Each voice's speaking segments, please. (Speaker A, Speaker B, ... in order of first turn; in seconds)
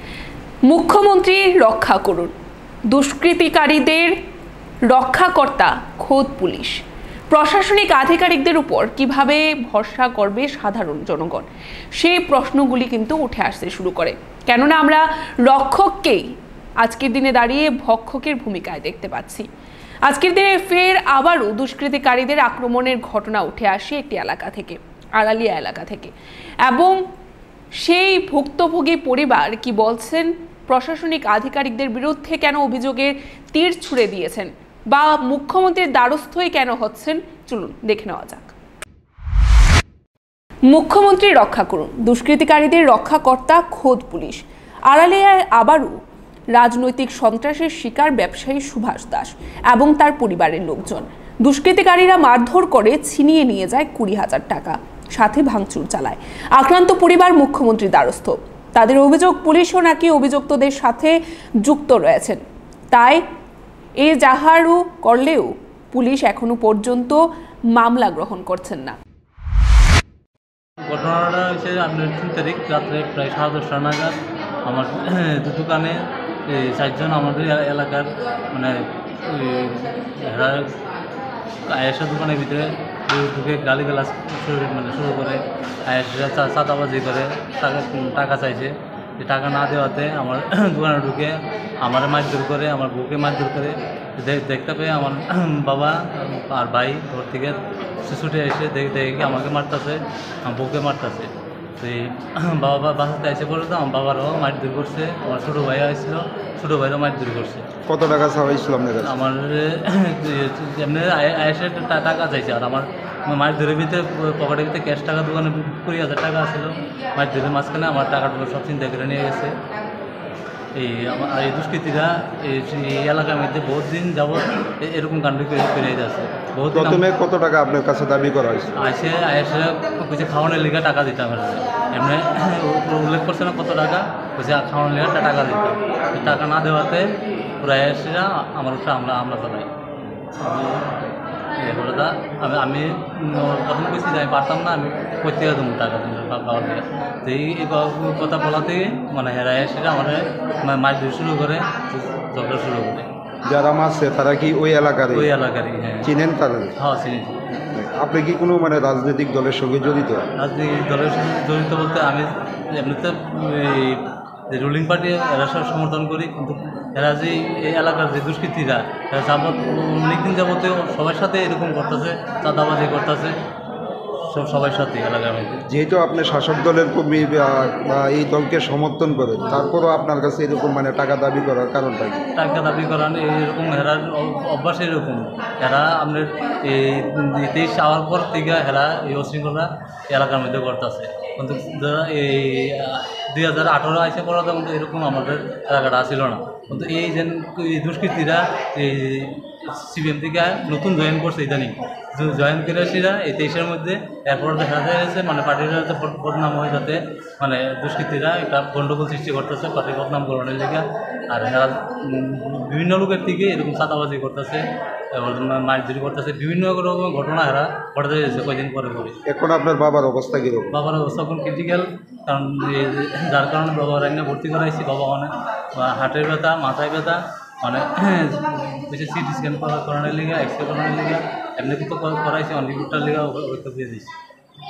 Speaker A: 0.7-2.3, 2.9-4.1, 4.9-11.4, 12.0-16.2, 16.8-19.4, 20.1-26.1, 26.6-27.0, 27.8-38.5, 40.6-45.9, 46.5-63.2, 64.0-67.2, 67.7-69.0
Speaker B: 70.8-80.7, 81.7-107.6, 109.0-119.5, 120.7-127.0, 128.8-139.7, 140.4-140.8, 141.6-153.1, 155.1-156.1, 156.8-157.4, 160.4-173.3, 174.3-175.6, 182.3-219.2, 220.7-234.1
Speaker C: 107.8-109.1, 126.7-128.7, 153.4-155.3, 156.0-156.7, 157.6-160.2, 175.7-182.2, 219.3-220.8